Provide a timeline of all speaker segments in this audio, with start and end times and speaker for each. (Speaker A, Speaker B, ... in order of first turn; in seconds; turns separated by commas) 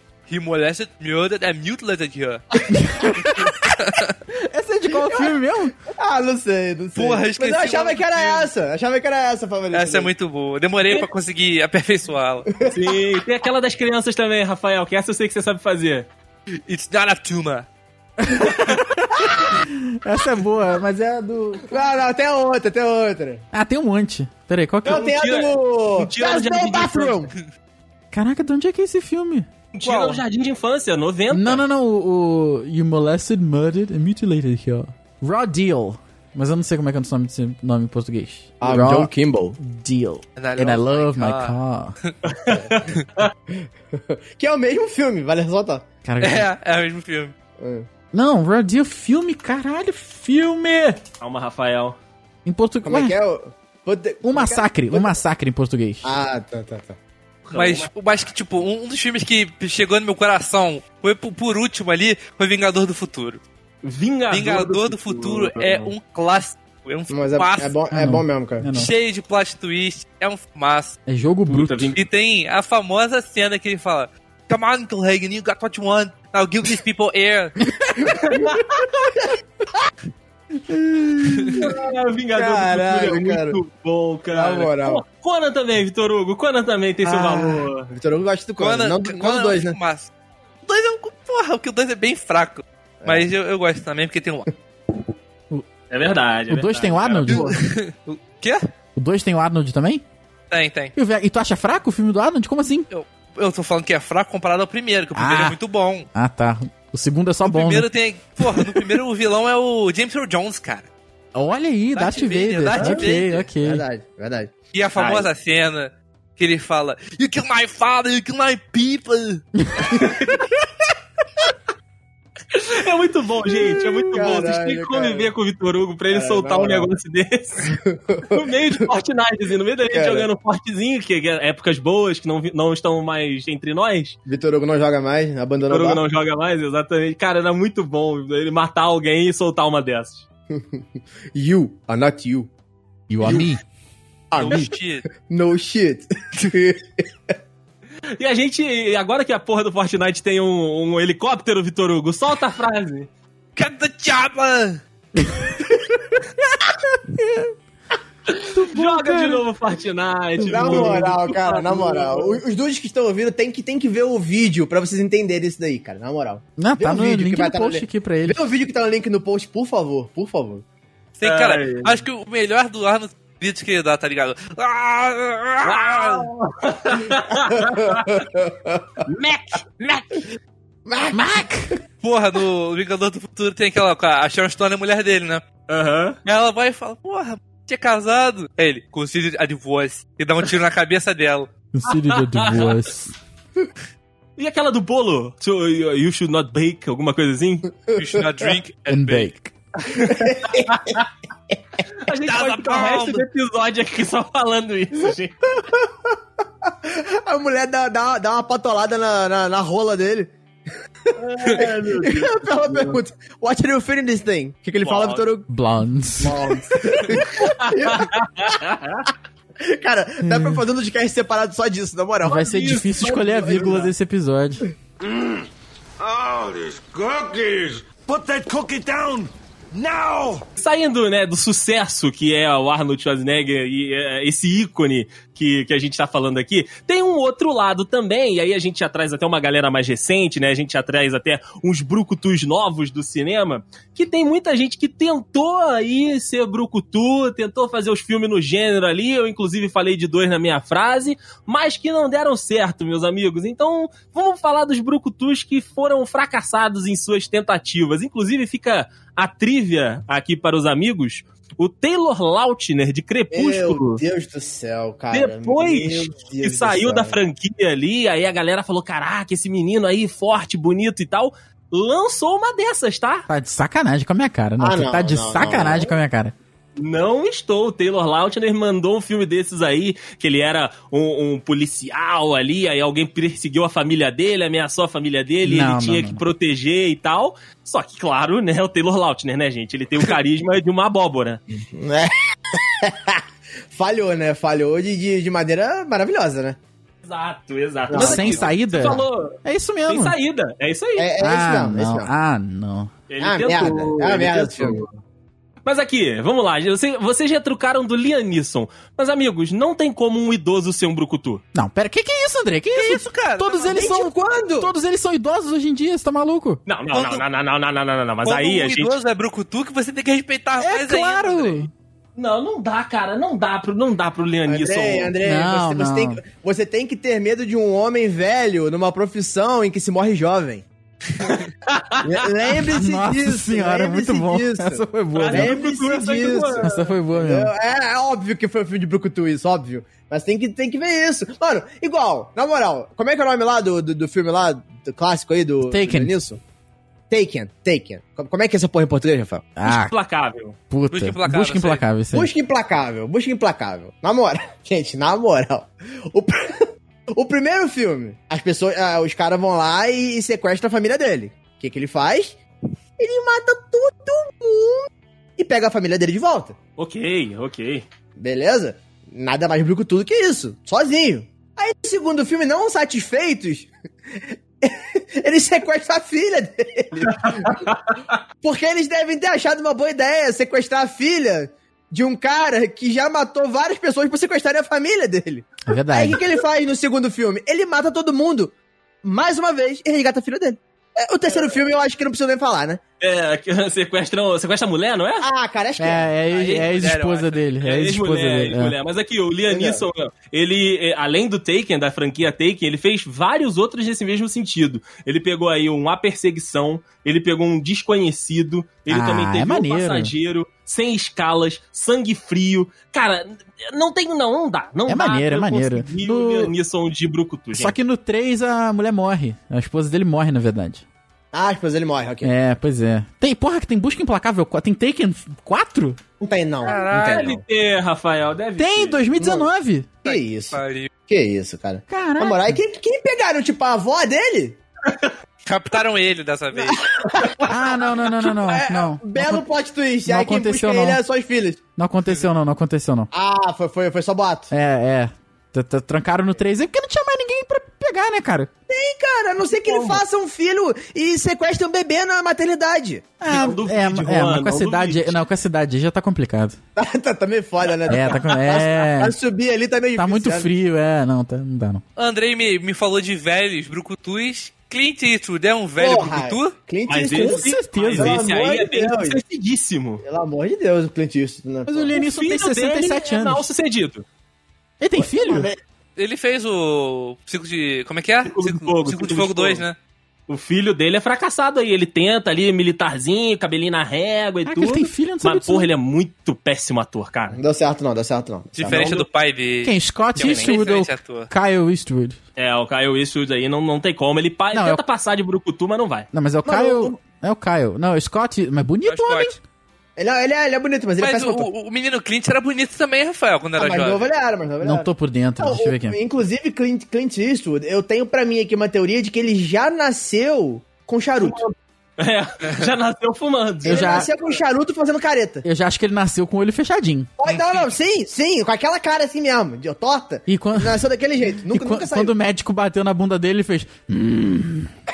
Speaker A: 0.3-2.6, Speaker B: 2.8-3.5, Speaker A: 3.6-4.2, Speaker B: 4.3-5.7, Speaker C: 5.0-5.4, Speaker C: 5.9-10.1, Speaker A: 6.9-8.5, Speaker A: 9.7-12.5, Speaker C: 12.5-12.8, Speaker D: 12.6-16.1, Speaker A: 16.7-17.7, Speaker B: 18.2-21.7, Speaker C: 19.1-19.6, Speaker C: 21.6-23.4, Speaker B: 23.5-25.1, Speaker D: 24.8-27.3, Speaker C: 24.8-27.3, Speaker B: 28.1-29.5, Speaker D: 29.7-31.6, Speaker C: 29.8-30.2, Speaker B: 31.3-42.0, Speaker C: 38.6-39.6, Speaker A: 40.4-42.1, Speaker D: 42.2-43.3, Speaker C: 43.5-45.9, Speaker B: 46.0-46.5, Speaker A: 46.2-47.3, Speaker C: 47.6-47.9, Speaker B: 48.1-51.0, Speaker D: 51.2-52.0, Speaker B: 52.4-53.1, Speaker C: 52.8-55.2, Speaker B: 54.2-56.1, Speaker C: 56.0-57.0, Speaker D: 57.5-58.0, Speaker A: 57.5-63.4, Speaker D: 63.8-65.9, Speaker A: 64.3-67.7, Speaker C: 67.1-68.7, Speaker B: 67.9-68.9, Speaker A: 68.7-71.0, Speaker B: 71.1-71.9, Speaker D: 71.5-72.0, Speaker A: 71.9-77.6, Speaker C: 78.0-78.6, Speaker D: 78.1-78.6, Speaker B: 80.7-81.7, Speaker A: 81.3-81.6, Speaker D: 81.5-87.9, Speaker C: 82.3-83.6, Speaker C: 84.3-85.0, Speaker C: 87.0-89.8, Speaker A: 88.6-90.1, Speaker A: 90.6-94.5, Speaker C: 93.0-93.3, Speaker D: 95.9-97.6, Speaker B: 96.5-97.5, Speaker A: 97.3-98.7, Speaker B: 99.0-100.0, Speaker A: 100.5-100.9, Speaker B: 100.9-102.9, Speaker A: 102.9-106.1, Speaker B: 105.1-105.6, Speaker B: 106.1-107.9, Speaker A: 107.4-110.9, Speaker B: 108.4-108.8, Speaker B: 111.3-113.8, Speaker A: 111.9-113.5, Speaker C: 112.8-113.0, Speaker C: 113.6-114.5, Speaker A: 114.7-119.4, Speaker D: 115.0-115.2, Speaker B: 119.6-120.4, Speaker D: 119.9-120.4, Speaker D: 122.5-127.8, Speaker C: 124.1-125.3, Speaker C: 126.1-126.9, Speaker C: 127.7-128.4, Speaker D: 128.3-134.2, Speaker C: 129.9-130.3, Speaker C: 134.2-136.0, Speaker D: 135.7-140.2, Speaker C: 140.5-140.8, Speaker C: 141.3-142.5, Speaker B: 143.1-143.6, Speaker C: 144.3-147.0, Speaker A: 144.3-145.1, Speaker D: 148.2-153.1, Speaker A: 153.6-154.8, Speaker B: 156.7-157.5, Speaker D: 158.4-162.4, Speaker B: 158.5-159.4, Speaker B: 160.4-161.0, Speaker C: 160.5-170.6, Speaker B: 166.6-168.4, Speaker A: 171.2-176.3, Speaker D: 171.2-172.0, Speaker D: 175.6-178.2, Speaker C: 177.6-179.0, Speaker D: 179.1-180.2, Speaker C: 180.8-181.4, Speaker B: 181.1-181.7, Speaker A: 182.0-185.4, Speaker D: 185.7-186.2, Speaker A: 186.2-191.5, Speaker B: 191.7-193.1, Speaker D: 191.9-192.7, Speaker D: 194.4-197.7, Speaker C: 197.9-198.5, Speaker A: 197.9-199.3, Speaker B: 198.9-199.5, Speaker D: 199.8-201.0, Speaker C: 199.9-201.0, Speaker D: 201.9-205.3, Speaker A: 202.2-203.2, Speaker C: 205.6-210.3, Speaker C: 211.0-215.5, Speaker D: 211.2-213.0, Speaker D: 214.8-215.3, Speaker B: 215.5-216.4, Speaker C: 216.2-218.6, Speaker D: 216.2-219.1, Speaker C: 219.6-223.8, Speaker B: 220.2-220.6, Speaker B: 222.2-224.6, Speaker D: 222.4-223.9, Speaker E: 225.0-225.4, Speaker E: 226.0-230.4, Speaker D: 230.6-264.0, Speaker C: 263.3-267.2, Speaker D: 265.1-273.3, Speaker B: 273.3-276.3, Speaker C: 274.6-275.9, Speaker D: 276.8-291.4, Speaker B: 285.4-286.2, Speaker C: 291.7-296.6, Speaker D: 297.0-301.1, Speaker C: 297.9-298.5, Speaker B: 297.9-300.1, Speaker C: 301.0-302.1, Speaker B: 301.2-302.9, Speaker D: 303.1-305.0, Speaker C: 303.2-304.8, Speaker D: 305.6-311.4, Speaker B: 311.5-316.6, Speaker A: 312.7-313.8, Speaker C: 313.7-314.7, Speaker D: 316.6-318.9, Speaker A: 316.9-317.2, Speaker A: 318.2-321.7, Speaker B: 320.6-321.7, Speaker D: 322.1-325.1, Speaker C: 324.5-330.6, Speaker B: 325.2-326.2, Speaker D: 331.7-332.1, Speaker C: 332.0-346.4, Speaker B: 332.6-335.6, Speaker D: 335.1-336.9, Speaker B: 336.6-337.5, Speaker B: 345.6-346.1, Speaker C: 347.1-349.5, Speaker B: 349.6-349.9, Speaker D: 349.6-350.6, Speaker B: 350.7-352.3, Speaker A: 350.9-351.8, Speaker C: 352.1-362.4, Speaker C: 363.0-366.6, Speaker D: 366.8-367.9, Speaker C: 368.1-373.7, Speaker C: 374.6-377.7, Speaker D: 377.2-378.0, Speaker C: 378.4-392.8, Speaker B: 385.7-386.2, Speaker D: 393.0-395.3, Speaker C: 395.2-396.1, Speaker B: 395.8-398.7, Speaker A: 396.3-397.4, Speaker D: 397.6-417.8, Speaker C: 399.5-399.8, Speaker B: 408.9-410.1, Speaker B: 414.9-416.5, Speaker B: 417.5-420.8, Speaker C: 421.3-422.3, Speaker B: 422.2-426.0, Speaker C: 426.2-427.4, Speaker A: 426.6-427.4, Speaker D: 426.8-429.0, Speaker B: 428.6-429.9, Speaker C: 429.2-429.5, Speaker A: 430.0-430.9, Speaker C: 430.0-434.6, Speaker B: 431.9-432.6, Speaker D: 434.9-435.1, Speaker A: 435.4-436.8, Speaker C: 436.6-441.6, Speaker B: 437.4-439.4, Speaker B: 440.1-441.0, Speaker B: 441.8-443.1, Speaker C: 443.1-444.5, Speaker B: 444.5-448.5, Speaker C: 448.7-453.1, Speaker D: 449.5-450.0, Speaker B: 453.2-456.6, Speaker D: 453.3-455.2, Speaker C: 456.8-460.5, Speaker B: 457.9-459.1, Speaker B: 459.9-461.8, Speaker A: 461.9-466.5, Speaker C: 465.8-469.2, Speaker D: 466.9-470.0, Speaker B: 467.1-468.2, Speaker C: 470.0-472.0, Speaker B: 471.7-473.4, Speaker D: 471.9-474.0, Speaker B: 474.8-475.5, Speaker C: 474.9-475.6, Speaker A: 476.0-479.8, Speaker D: 478.2-479.6, Speaker D: 480.3-487.4, Speaker B: 484.4-485.7, Speaker C: 487.3-489.0, Speaker A: 488.5-491.3, Speaker D: 488.7-489.0, Speaker B: 489.6-492.2, Speaker D: 490.2-490.5, Speaker D: 492.4-496.1, Speaker B: 494.5-494.8, Speaker B: 496.1-499.4, Speaker C: 496.4-496.9, Speaker A: 498.9-499.3, Speaker C: 499.9-501.5, Speaker A: 501.0-504.1, Speaker C: 503.6-511.5, Speaker B: 504.6-506.0, Speaker D: 512.0-514.2, Speaker B: 513.6-514.1, Speaker C: 513.6-515.5, Speaker B: 515.4-517.1, Speaker C: 517.2-522.1, Speaker A: 517.2-517.7, Speaker B: 520.3-520.8, Speaker B: 521.5-524.7